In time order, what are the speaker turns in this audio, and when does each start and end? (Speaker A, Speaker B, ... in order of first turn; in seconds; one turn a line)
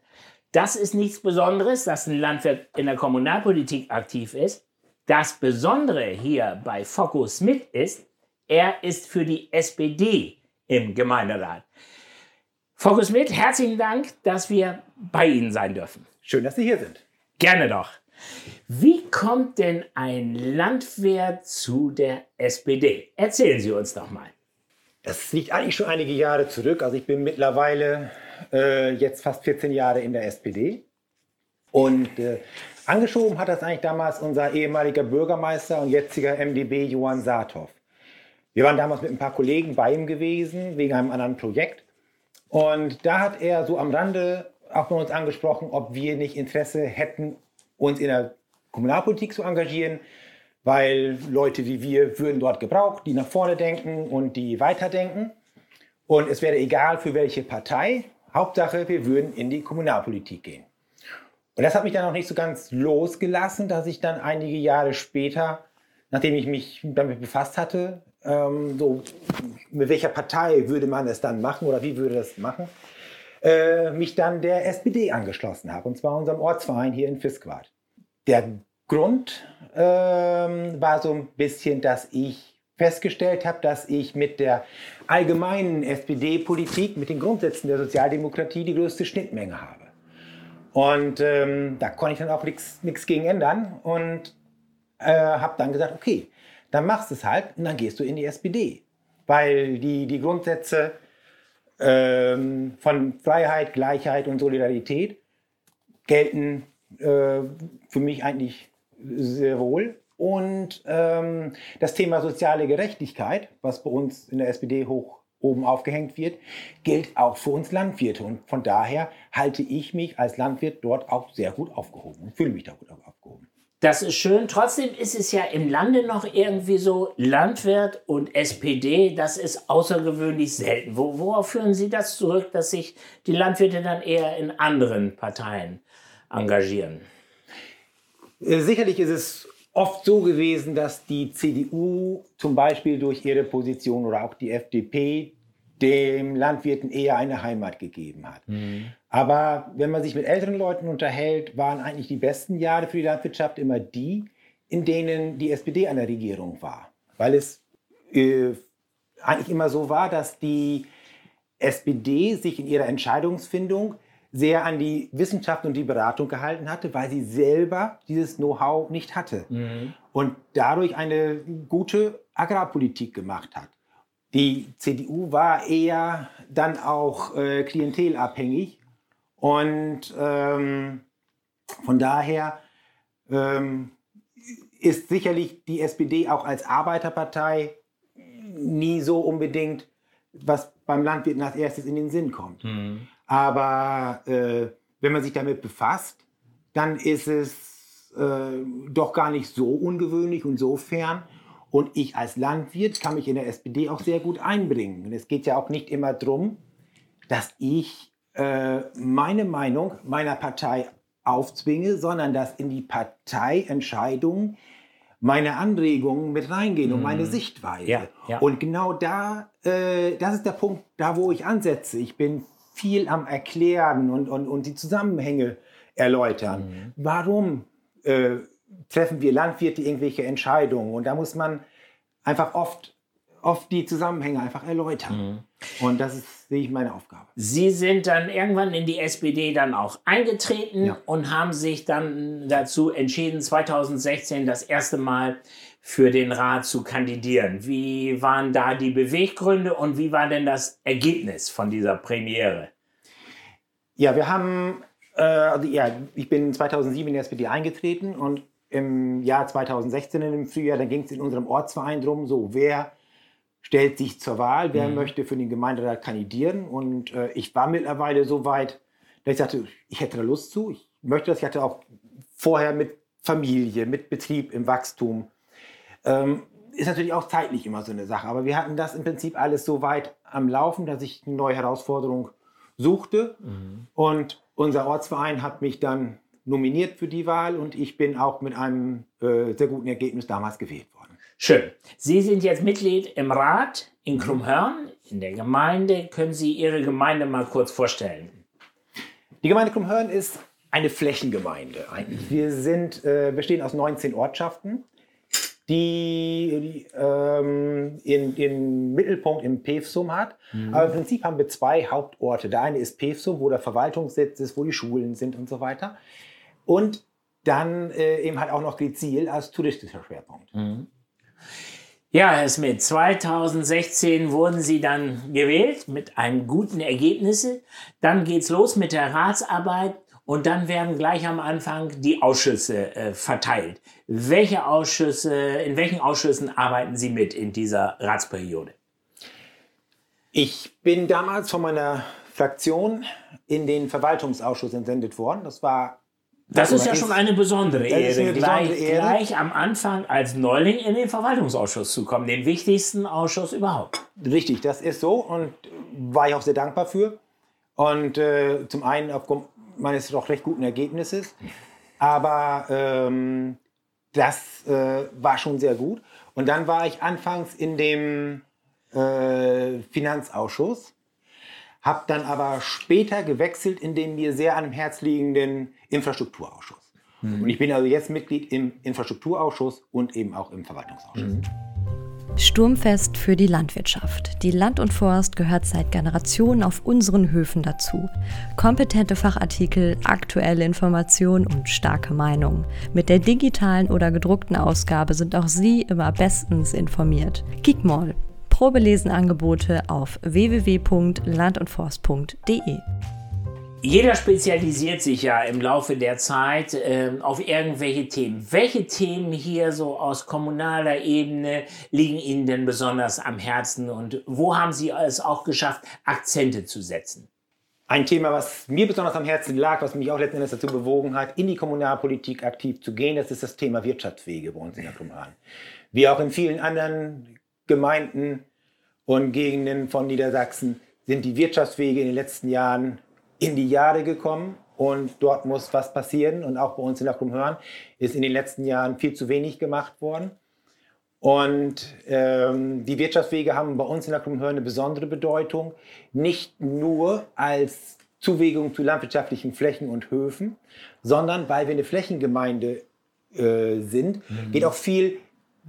Speaker A: 0.5-11.7
Speaker A: 12.8-16.1
Speaker B: 16.2-17.0
Speaker A: 17.4-18.0
Speaker A: 18.7-24.3
Speaker B: 25.0-30.8
Speaker B: 31.7-37.8
Speaker B: 38.5-41.9
Speaker B: 42.5-50.0
Speaker B: 50.6-55.4
Speaker B: 56.1-60.7
Speaker B: 61.6-72.7
Speaker B: 73.4-77.7
Speaker B: 78.3-89.9
Speaker B: 90.7-94.3
Speaker B: 95.0-101.0
Speaker B: 101.8-105.2
Speaker B: 106.1-123.5
Speaker A: 123.8-137.0
Speaker B: 138.4-148.5
Speaker A: 148.5-148.9
Speaker B: 149.1-158.6
Speaker B: 159.2-160.9
Speaker B: 161.6-169.5
Speaker A: 169.5-169.9
Speaker B: 170.1-173.7
Speaker B: 174.3-178.8
Speaker B: 179.4-181.0
Speaker B: 181.8-182.6
Speaker B: 183.3-183.9
Speaker B: 184.8-192.6
Speaker A: 192.6-193.1
Speaker B: 193.3-196.2
Speaker B: 196.7-206.6
Speaker B: 207.3-214.6
Speaker B: 215.2-231.6
Speaker A: 216.8-218.4
Speaker A: 226.5-226.9
Speaker B: 232.2-235.2
Speaker A: 235.1-235.4
Speaker B: 235.8-237.3
Speaker A: 237.4-252.7
Speaker B: 254.0-262.9
Speaker B: 263.6-271.8
Speaker A: 264.7-265.1
Speaker B: 272.4-275.3
Speaker B: 276.0-283.4
Speaker B: 284.0-291.1
Speaker A: 291.4-298.4
Speaker B: 299.4-304.9
Speaker B: 305.7-316.0
Speaker A: 310.5-310.9
Speaker B: 316.7-320.5
Speaker A: 320.6-320.9
Speaker A: 322.1-338.8
Speaker B: 340.3-346.0
Speaker A: 346.5-354.0
Speaker B: 346.5-347.2
Speaker B: 347.9-349.2
Speaker B: 354.2-357.2
Speaker B: 357.8-361.4
Speaker B: 362.0-363.6
Speaker B: 364.1-370.9
Speaker B: 371.8-381.4
Speaker A: 377.2-377.6
Speaker A: 381.2-381.4
Speaker C: 382.4-402.8
Speaker A: 403.8-417.3
Speaker B: 417.9-425.4
Speaker B: 425.9-428.4
Speaker B: 429.1-440.4
Speaker B: 441.2-455.2
Speaker A: 454.4-454.7